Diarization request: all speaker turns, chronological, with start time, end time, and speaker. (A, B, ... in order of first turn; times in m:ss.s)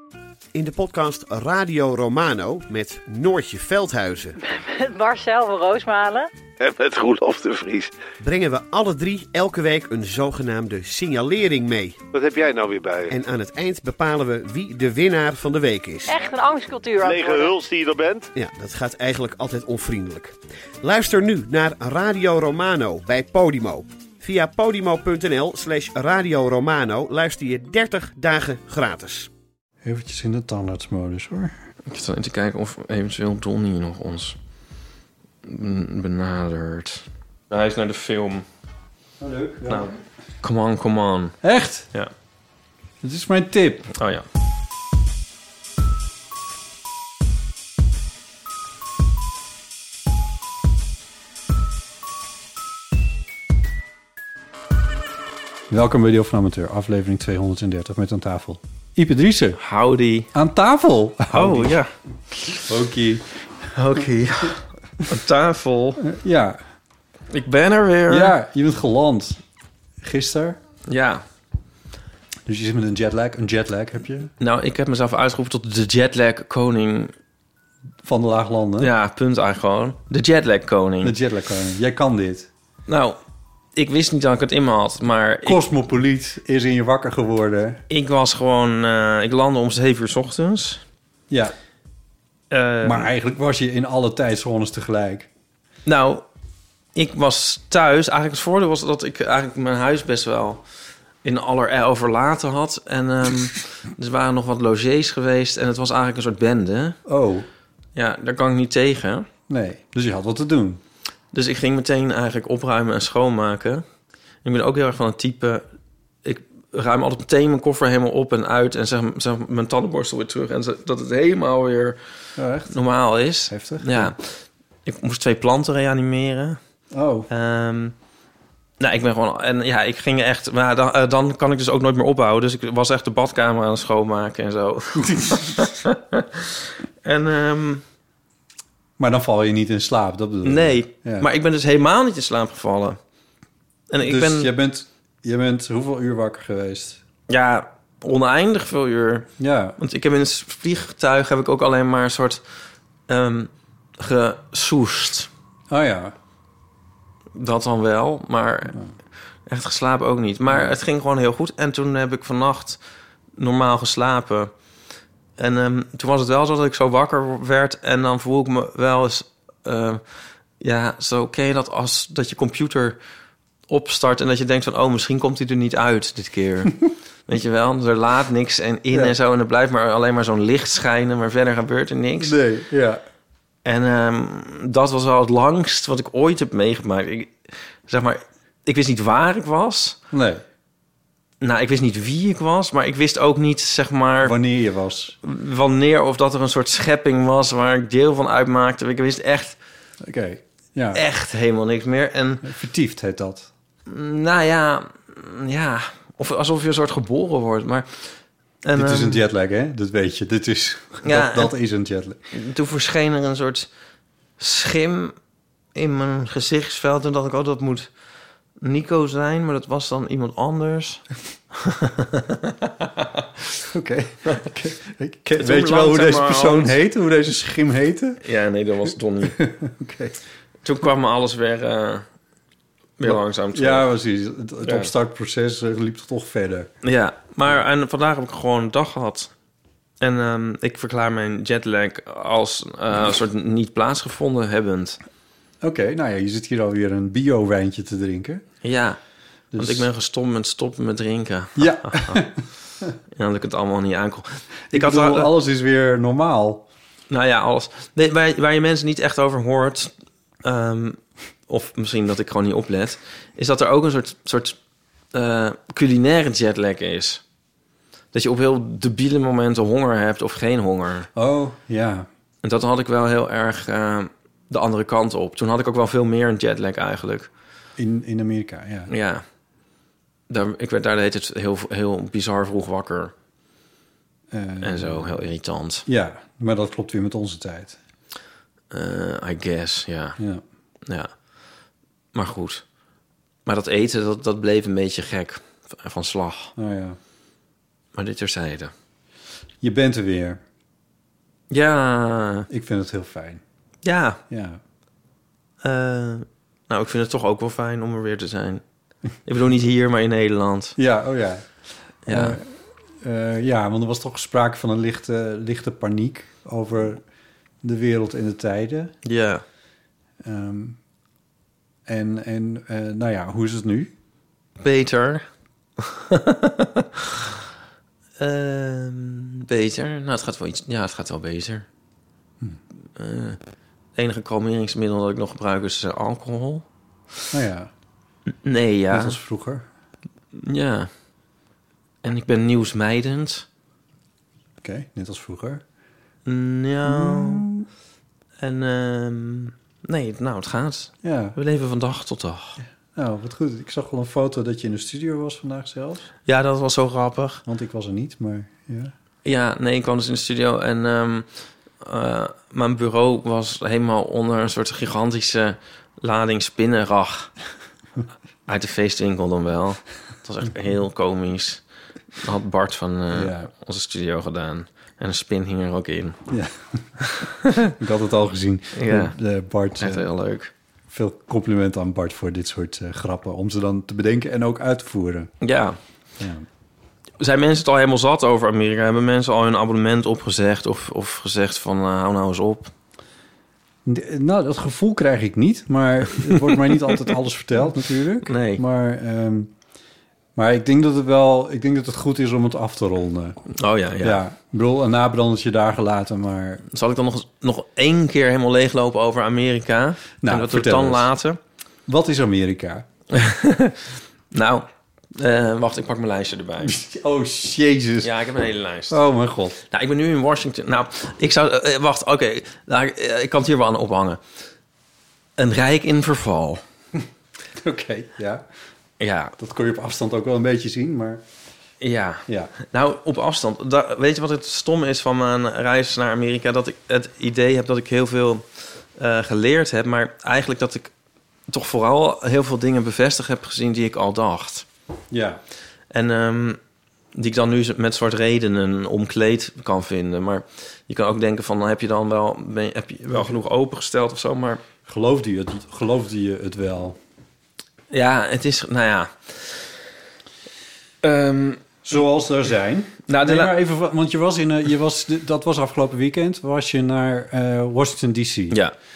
0:00.5-0:04.3 A
0:04.4-0:06.3 B
0:06.6-0:07.9 C
0:08.2-0:12.0 A
0:12.1-0:13.1 C
0:13.1-0:16.1 A
0:16.1-0:17.6 B
0:17.1-0:18.3 C
0:18.3-0:29.3 A
0:29.8-0:31.6 D
0:31.9-0:34.4 E
0:35.4-0:38.4 E
0:39.2-0:39.9 D
0:39.7-0:41.4 E
0:41.4-0:41.9 D
0:43.0-0:43.9 D
0:44.0-0:44.2 E
0:55.7-0:59.6 D
0:59.6-1:00.3 E
1:00.3-1:01.8 D
1:01.3-1:01.9 E
1:02.5-1:03.3 D
1:03.7-1:06.0 E
1:06.0-1:06.6 D
1:07.3-1:08.3 E
1:08.1-1:09.4 D
1:10.0-1:10.6 D
1:10.9-1:11.2 E
1:12.4-1:14.3 D
1:14.4-1:17.1 E
1:18.0-1:18.9 D
1:18.8-1:21.1 E
1:21.0-1:22.5 D
1:22.9-1:23.2 E
1:23.8-1:25.6 E
1:25.4-1:27.8 D
1:27.9-1:30.8 E
1:31.3-1:31.5 D
1:32.5-1:33.1 E
1:32.8-1:35.3 D
1:35.8-1:36.2 E
1:36.9-1:40.6 E
1:41.2-1:47.0 E
1:47.0-1:47.5 D
1:48.0-1:49.3 E
1:49.5-1:50.8 D
1:51.3-1:53.8 E
1:54.4-1:55.6 E
1:56.2-2:02.0 E
2:02.4-2:02.8 D
2:02.7-2:04.3 E
2:03.5-2:04.1 D
2:04.8-2:06.6 E
2:06.9-2:07.3 D
2:07.3-2:07.9 E
2:08.8-2:17.8 E
2:15.0-2:15.6 D
2:19.0-2:21.3 D
2:20.4-2:23.0 E
2:23.9-2:24.5 E
2:24.0-2:27.0 D
2:27.3-2:32.4 E
2:29.4-2:29.8 D
2:33.1-2:35.3 E
2:35.7-2:36.1 D
2:37.4-2:38.8 E
2:39.5-2:42.8 E
2:43.4-2:44.5 E
2:45.4-2:50.0 E
2:50.6-2:53.0 E
2:53.7-2:56.8 E
2:57.3-3:02.4 E
2:58.9-2:59.2 D
3:02.2-3:03.0 D
3:03.6-3:07.4 E
3:07.9-3:10.0 E
3:10.1-3:10.4 D
3:11.4-3:14.4 E
3:14.2-3:15.1 D
3:15.2-3:19.6 E
3:20.0-3:21.0 D
3:20.9-3:22.4 E
3:22.4-3:23.5 D
3:23.9-3:29.2 E
3:28.7-3:32.2 D
3:31.0-3:31.5 E
3:32.3-3:33.7 E
3:34.4-3:35.1 E
3:35.7-3:37.9 E
3:38.6-3:41.0 E
3:41.6-3:43.1 E
3:43.6-3:48.2 D
3:45.4-3:46.7 E
3:48.2-3:49.4 E
3:49.2-3:50.2 D
3:50.6-3:52.0 E
3:53.0-3:53.9 E
3:53.0-3:56.7 D
3:54.6-3:54.9 E
3:56.8-3:59.3 E
4:00.0-4:05.0 E
4:05.6-4:08.4 D
4:08.6-4:09.0 E
4:09.5-4:09.8 D
4:09.5-4:12.3 E
4:11.6-4:12.9 D
4:13.1-4:15.3 E
4:14.7-4:16.6 D
4:17.1-4:19.9 E
4:20.4-4:24.6 E
4:25.1-4:27.2 E
4:28.1-4:31.1 E
4:31.1-4:32.1 D
4:32.4-4:37.3 E
4:37.8-4:38.9 D
4:38.9-4:39.2 E
4:40.3-4:43.1 E
4:44.3-4:45.2 D
4:44.6-4:45.8 E
4:45.8-4:47.8 D
4:48.7-4:50.2 E
4:50.8-4:51.1 E
4:52.1-4:52.6 E
4:53.4-4:56.5 E
4:56.6-4:57.0 D
4:57.9-4:58.7 E
4:59.6-5:00.4 D
5:01.5-5:02.5 E
5:02.5-5:03.4 D
5:03.8-5:04.2 E
5:04.3-5:04.6 D
5:05.6-5:08.6 E
5:09.2-5:10.8 E
5:10.8-5:11.4 D
5:12.1-5:12.4 E
5:12.1-5:17.0 D
5:17.6-5:18.9 D
5:19.0-5:19.4 E
5:20.2-5:20.8 D
5:21.8-5:23.9 D
5:24.6-5:25.2 E
5:25.8-5:27.2 E
5:28.2-5:31.6 E
5:33.0-5:33.4 E
5:34.0-5:36.6 E
5:37.3-5:37.7 D
5:38.4-5:39.2 E
5:38.9-5:39.7 D
5:40.3-5:40.9 E
5:42.0-5:43.4 E
5:44.6-5:45.6 D
5:46.2-5:47.4 E
5:46.8-5:47.7 D
5:48.4-5:52.6 E
5:51.0-5:51.4 D
5:52.6-5:56.1 D
5:56.2-5:57.4 E
5:57.4-5:58.9 D
5:59.2-6:01.3 E
6:01.8-6:07.3 E
6:08.5-6:11.6 E
6:12.2-6:16.2 E
6:13.1-6:13.5 D
6:16.3-6:16.9 D
6:17.7-6:20.0 D
6:18.7-6:19.2 E
6:19.8-6:20.5 E
6:20.9-6:25.3 D
6:25.4-6:25.8 E
6:26.2-6:26.4 D
6:27.2-6:32.7 E
6:33.8-6:39.5 D
6:36.3-6:37.0 E
6:38.2-6:38.6 E
6:40.4-6:43.4 D
6:43.5-6:44.2 E
6:44.0-6:46.6 D
6:46.7-6:51.4 E
6:50.2-6:51.1 D
6:51.9-6:52.8 D
6:53.1-6:56.8 E
6:56.6-6:58.1 D
6:58.0-6:59.0 E
6:58.9-6:59.6 D
6:59.7-7:04.2 E
7:05.4-7:06.6 E
7:07.5-7:08.4 D
7:09.0-7:09.3 E
7:09.4-7:11.2 D
7:11.8-7:18.4 E
7:12.3-7:12.5 D
7:19.0-7:20.9 E
7:21.5-7:24.6 E
7:25.1-7:25.4 D
7:25.9-7:26.6 E
7:27.1-7:34.6 E
7:33.1-7:33.4 D
7:34.8-7:37.0 D
7:37.9-7:39.4 E
7:41.0-7:41.6 E
7:41.8-7:48.6 D
7:43.1-7:43.6 E